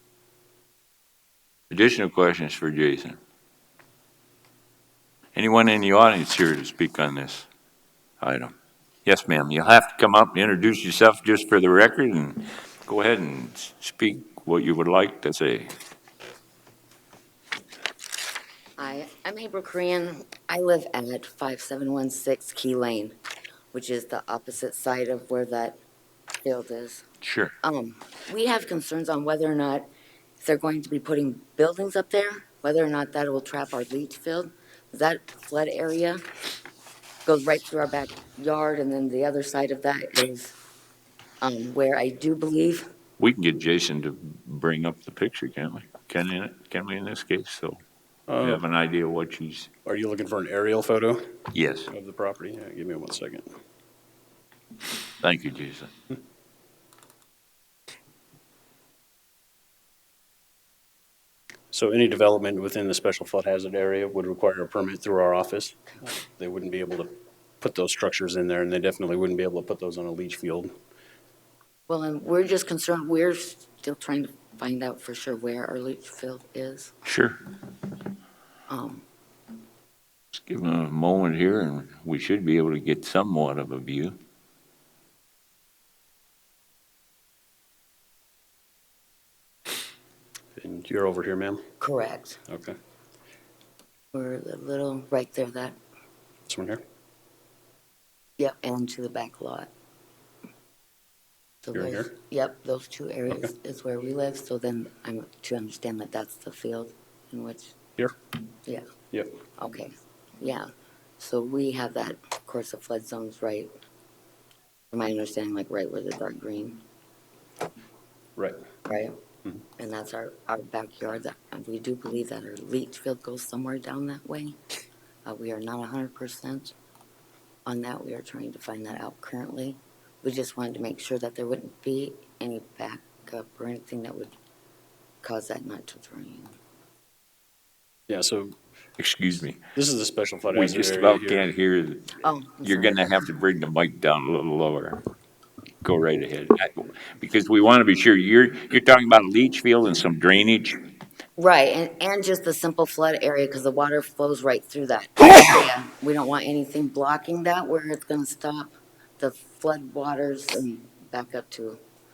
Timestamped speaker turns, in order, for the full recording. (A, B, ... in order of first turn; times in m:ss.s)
0:01.7-0:03.2 A
0:05.3-0:07.5 A
0:08.2-0:08.5 A
0:09.0-0:15.7 A
0:18.8-0:23.2 B
0:23.7-0:25.8 B
0:26.4-0:27.0 B
0:27.2-0:27.6 A
0:27.6-0:29.9 B
0:30.4-0:36.2 B
0:37.2-0:40.5 B
0:41.4-0:42.9 B
0:43.2-0:47.8 A
0:48.3-0:48.6 C
0:48.4-0:49.7 A
0:49.8-0:51.3 C
0:51.5-0:51.9 A
0:51.9-0:53.5 C
0:55.2-0:55.9 A
1:01.7-1:10.7 C
1:11.9-1:16.9 B
1:17.0-1:17.4 A
1:18.7-1:19.0 B
1:20.3-1:24.2 A
1:30.6-1:31.6 C
1:31.8-1:32.4 B
1:32.5-1:32.8 C
1:34.1-1:35.8 B
1:36.5-1:36.8 C
1:38.4-1:39.7 B
1:41.6-1:47.7 B
1:41.7-1:42.1 C
1:49.1-1:49.4 C
1:49.6-1:50.7 B
1:51.2-1:53.7 B
1:54.9-1:56.8 B
1:58.9-1:59.1 B
1:59.8-2:04.6 B
2:05.2-2:06.7 B
2:07.6-2:14.3 B
2:15.2-2:16.5 B
2:18.1-2:18.5 C
2:19.0-2:19.6 A
2:19.7-2:21.5 C
2:20.5-2:25.0 A
2:22.2-2:23.2 B
2:25.8-2:30.8 A
2:31.4-2:41.8 B